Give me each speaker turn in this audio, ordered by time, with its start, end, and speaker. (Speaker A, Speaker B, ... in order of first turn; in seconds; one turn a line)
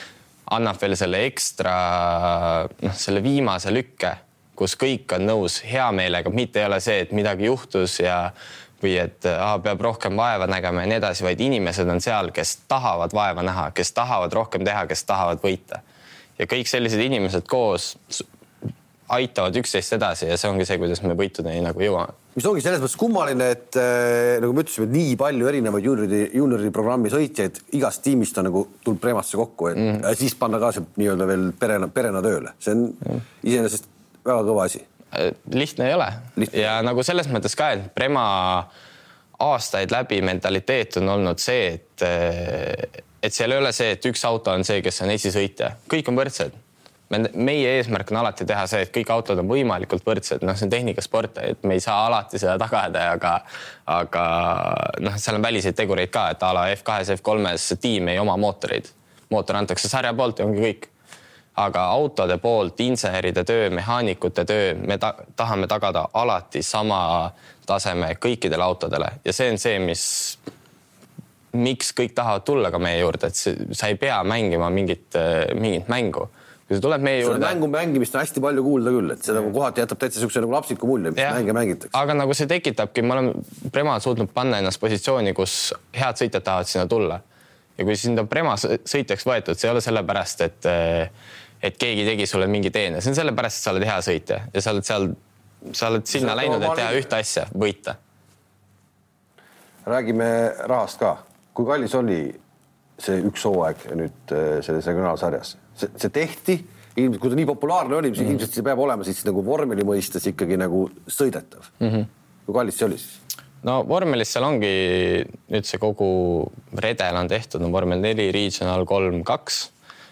Speaker A: 0.5-15.8
Speaker A: 16.4-18.3
Speaker A: 19.1-22.2
Speaker B: 22.4-34.8
Speaker A: 35.1-38.7
Speaker B: 36.4-36.7
Speaker A: 39.4-46.5
Speaker A: 47.1-60.9
Speaker A: 61.6-70.4
Speaker A: 71.5-77.6
Speaker B: 77.2-81.9
Speaker A: 81.2-87.2
Speaker A: 87.8-98.0
Speaker B: 96.1-97.1
Speaker B: 99.9-102.4
Speaker B: 103.0-111.7
Speaker B: 112.5-113.2
Speaker A: 113.6-119.7